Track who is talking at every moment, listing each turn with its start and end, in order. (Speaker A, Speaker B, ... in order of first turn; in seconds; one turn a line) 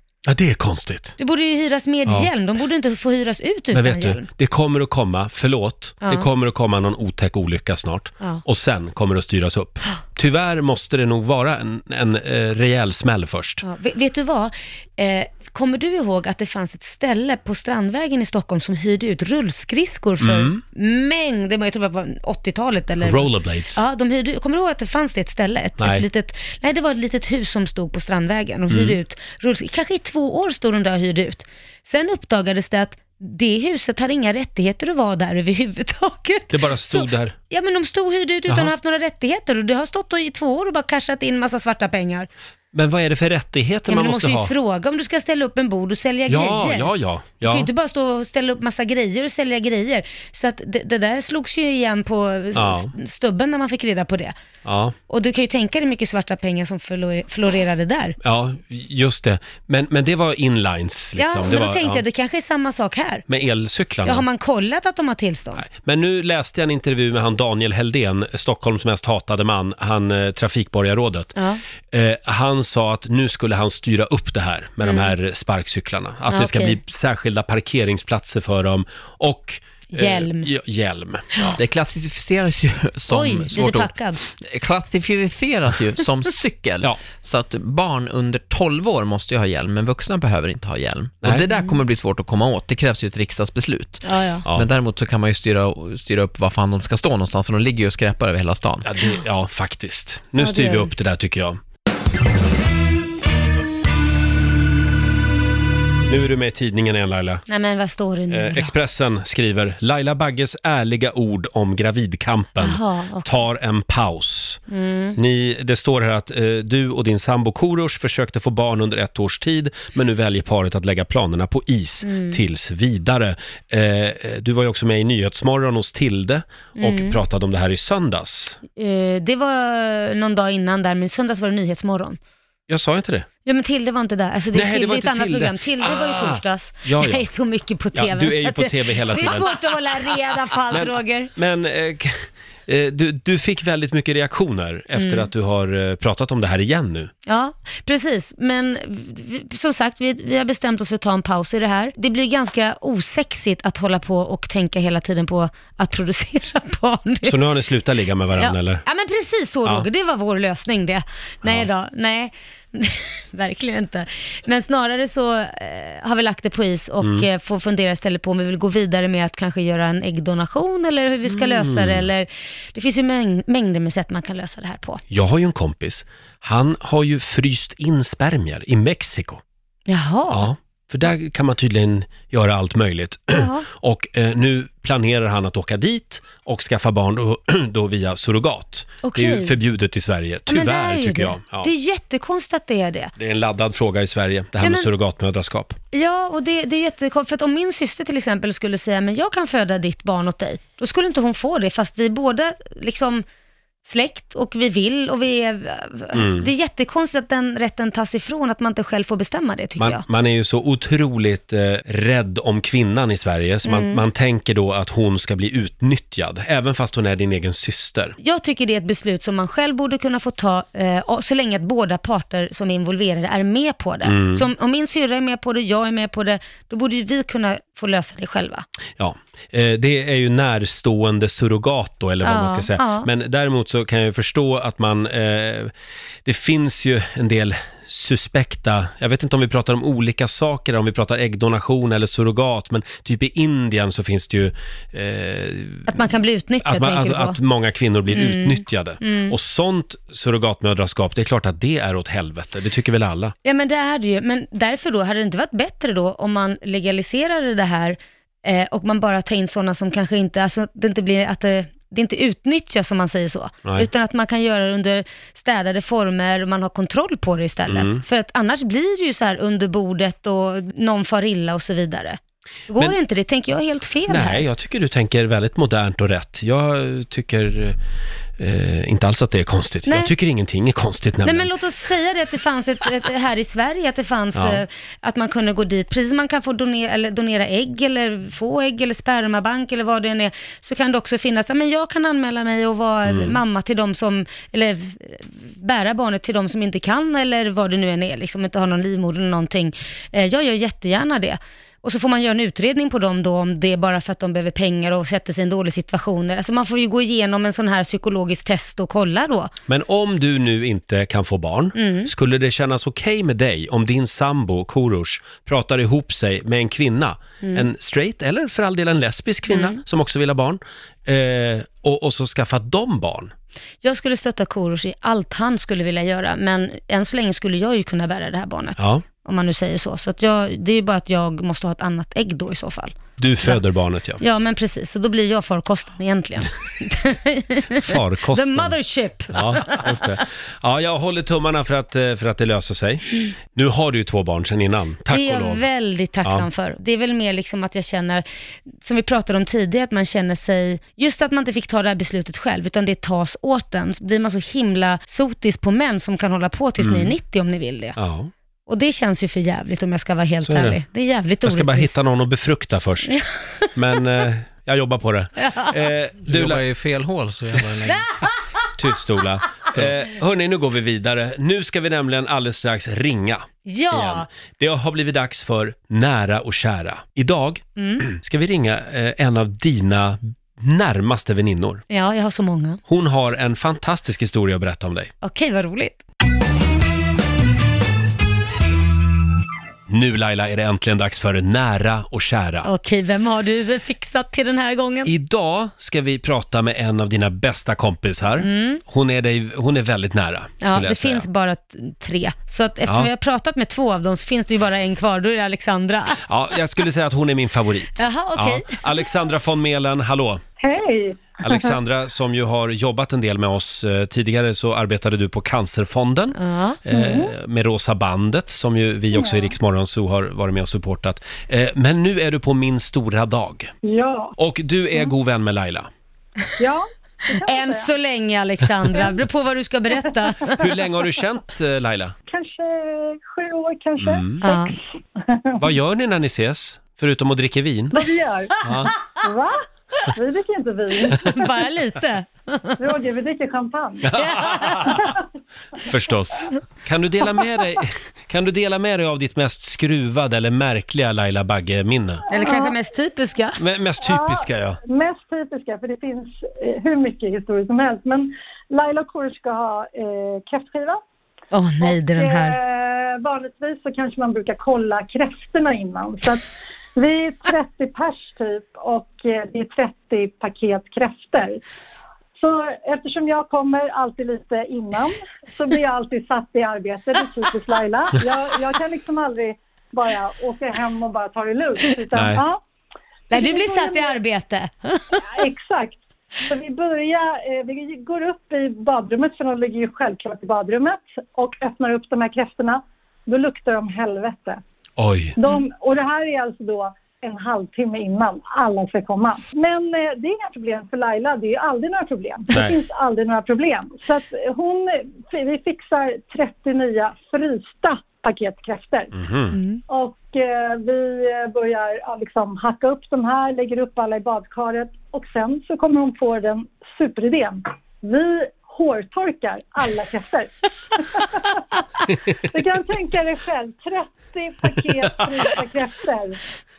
Speaker A: 0.2-1.2
Speaker B: 1.2-4.3
Speaker A: 3.7-13.6
Speaker B: 13.6-42.3
Speaker A: 20.2-20.6
Speaker A: 23.0-23.8
Speaker A: 25.8-26.0
Speaker A: 28.7-29.0
Speaker A: 36.5-37.4
Speaker A: 42.7-44.5
Speaker B: 43.9-46.9
Speaker A: 46.3-47.7
Speaker B: 47.4-54.4
Speaker A: 52.5-52.9
Speaker A: 54.6-55.0
Speaker B: 55.1-58.2
Speaker A: 58.2-62.0
Speaker B: 61.2-63.2
Speaker A: 63.3-64.3
Speaker B: 64.0-65.7
Speaker A: 65.6-71.4
Speaker B: 71.4-71.6
Speaker A: 71.9-81.6
Speaker B: 74.8-75.1
Speaker B: 76.3-76.8
Speaker B: 79.9-80.5
Speaker C: 81.6-98.9
Speaker B: 83.1-84.2
Speaker B: 94.0-94.5
Speaker A: 98.8-101.6
Speaker B: 100.4-100.9
Speaker A: 106.1-107.4
Speaker B: 107.5-108.7
Speaker A: 108.3-114.6
Speaker B: 112.6-113.3
Speaker B: 114.7-115.2
Speaker A: 115.2-128.6
Speaker B: 122.0-122.4
Speaker B: 126.8-127.2
Speaker B: 128.8-132.2
Speaker A: 132.7-133.3
Speaker B: 133.4-141.3
Speaker A: 134.5-137.3
Speaker A: 137.9-139.6
Speaker A: 140.7-147.1
Speaker B: 144.9-145.3
Speaker B: 147.3-157.4
Speaker A: 157.2-158.8
Speaker B: 158.3-175.0
Speaker A: 167.0-167.3
Speaker A: 171.3-172.1
Speaker A: 175.1-179.4
Speaker B: 179.9-180.5
Speaker A: 180.3-191.7
Speaker B: 183.3-183.7
Speaker B: 189.0-189.6
Speaker B: 190.5-193.1
Speaker A: 193.2-195.8
Speaker B: 194.6-194.9
Speaker B: 195.9-203.2
Speaker B: 203.8-210.0
Speaker A: 206.1-206.5
Speaker A: 209.8-218.2
Speaker B: 213.7-214.0
Speaker B: 218.2-228.7
Speaker A: 224.0-224.5
Speaker A: 229.0-235.7
Speaker B: 232.2-233.1
Speaker A: 236.2-246.0
Speaker B: 245.9-247.4
Speaker A: 246.6-253.3
Speaker B: 248.1-249.4
Speaker B: 253.4-274.4
Speaker A: 267.7-268.0
Speaker A: 274.1-277.8
Speaker A: 278.4-281.5
Speaker B: 279.9-280.1
Speaker B: 281.2-309.5
Speaker A: 284.4-284.6
Speaker A: 293.1-293.4
Speaker A: 309.7-323.3
Speaker B: 311.8-312.1
Speaker B: 317.4-317.7
Speaker B: 319.5-319.8
Speaker B: 323.8-333.6
Speaker A: 328.8-329.0
Speaker A: 333.2-334.2
Speaker B: 334.2-340.2
Speaker A: 337.7-338.8
Speaker A: 339.3-345.7
Speaker B: 345.1-358.0
Speaker A: 356.8-357.1
Speaker A: 358.0-358.3
Speaker B: 358.7-362.0
Speaker A: 360.4-360.8
Speaker A: 361.4-363.2
Speaker B: 363.1-363.8
Speaker A: 363.7-366.7
Speaker B: 365.4-365.8
Speaker C: 366.3-368.1
Speaker A: 367.5-367.8
Speaker B: 367.8-368.4
Speaker A: 368.7-381.8
Speaker B: 373.7-374.3
Speaker B: 377.8-378.1
Speaker B: 381.9-382.8
Speaker A: 382.9-385.1
Speaker B: 385.2-386.0
Speaker A: 389.9-392.7
Speaker B: 392.6-395.1
Speaker A: 395.1-401.3
Speaker B: 398.4-398.8
Speaker B: 400.6-406.2
Speaker A: 402.9-403.1
Speaker A: 406.2-410.4
Speaker B: 408.0-408.8
Speaker D: 410.6-411.7
Speaker A: 411.4-423.7
Speaker B: 416.4-416.8
Speaker D: 416.9-417.3
Speaker D: 419.1-419.5
Speaker D: 423.8-424.4
Speaker A: 424.4-425.9
Speaker D: 426.6-427.9
Speaker B: 427.3-430.7
Speaker A: 430.6-432.2
Speaker D: 432.3-435.6
Speaker A: 434.0-434.4
Speaker B: 434.4-434.8
Speaker A: 435.6-438.1
Speaker D: 437.9-441.5
Speaker A: 438.6-438.9
Speaker B: 438.7-439.0
Speaker B: 441.1-442.8
Speaker D: 442.8-445.2
Speaker A: 444.0-445.1
Speaker B: 444.1-445.1
Speaker A: 445.8-452.2
Speaker B: 452.3-453.6
Speaker D: 452.3-452.8
Speaker A: 453.6-454.8
Speaker D: 454.0-461.0
Speaker B: 461.5-462.6
Speaker D: 461.8-471.6
Speaker D: 472.4-482.6
Speaker A: 482.1-482.4
Speaker D: 483.3-484.2
Speaker B: 483.3-485.3
Speaker D: 485.1-494.6
Speaker A: 495.0-495.4
Speaker D: 495.4-509.2
Speaker A: 509.1-509.6
Speaker B: 509.5-509.8
Speaker D: 509.9-526.4
Speaker A: 525.0-525.6